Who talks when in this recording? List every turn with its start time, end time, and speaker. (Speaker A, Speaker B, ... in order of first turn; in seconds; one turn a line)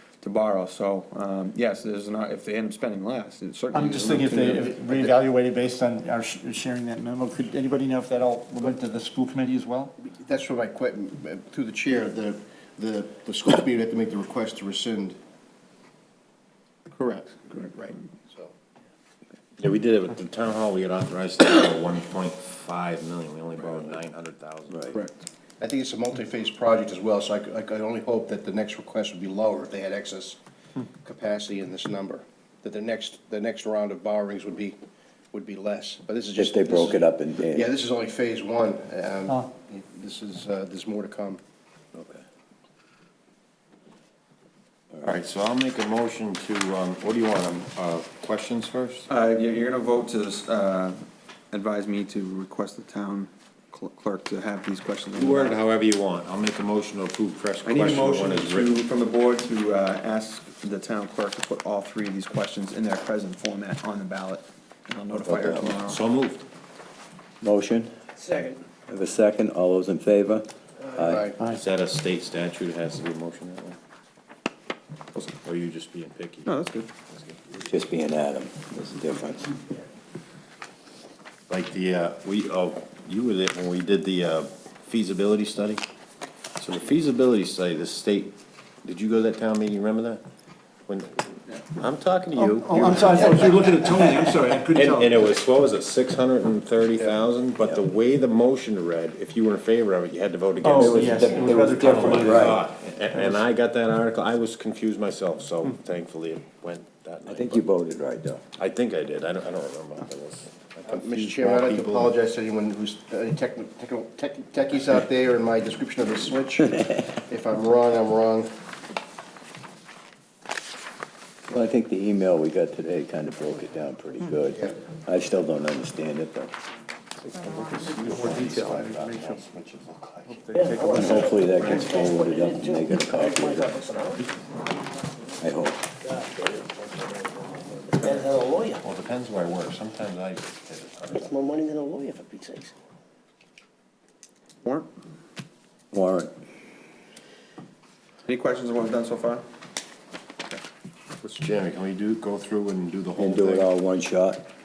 Speaker A: 0.2-4.7
Speaker B: 3.7-9.9
Speaker C: 4.4-5.1
Speaker C: 10.0-15.2
Speaker A: 16.9-17.9
Speaker D: 19.6-25.0
Speaker E: 24.7-24.9
Speaker C: 25.6-30.4
Speaker C: 31.0-34.8
Speaker C: 35.3-41.4
Speaker E: 36.3-37.7
Speaker E: 41.9-42.2
Speaker D: 45.0-49.1
Speaker A: 49.1-51.0
Speaker A: 51.5-55.6
Speaker D: 55.1-58.7
Speaker A: 57.6-66.0
Speaker E: 65.2-65.7
Speaker D: 65.8-66.4
Speaker E: 67.4-67.9
Speaker F: 68.2-68.6
Speaker E: 68.9-71.3
Speaker C: 71.0-71.4
Speaker D: 71.5-73.8
Speaker D: 75.4-76.5
Speaker A: 76.4-76.9
Speaker D: 77.1-77.4
Speaker E: 77.6-79.5
Speaker D: 81.5-85.8
Speaker D: 86.6-90.2
Speaker D: 90.9-93.7
Speaker B: 92.4-95.3
Speaker D: 94.7-107.7
Speaker B: 100.6-102.5
Speaker E: 100.7-102.6
Speaker E: 107.2-108.4
Speaker D: 108.6-112.1
Speaker C: 110.9-118.5
Speaker E: 121.5-126.5
Speaker D: 127.2-131.1
Speaker B: 127.9-129.3
Speaker F: 130.5-134.2
Speaker E: 130.8-133.8
Speaker E: 135.4-135.8
Speaker F: 136.0-138.8
Speaker D: 138.8-141.5
Speaker F: 141.1-142.7
Speaker E: 145.9-146.3
Speaker A: 148.2-149.4
Speaker D: 151.2-153.7
Speaker E: 153.2-154.4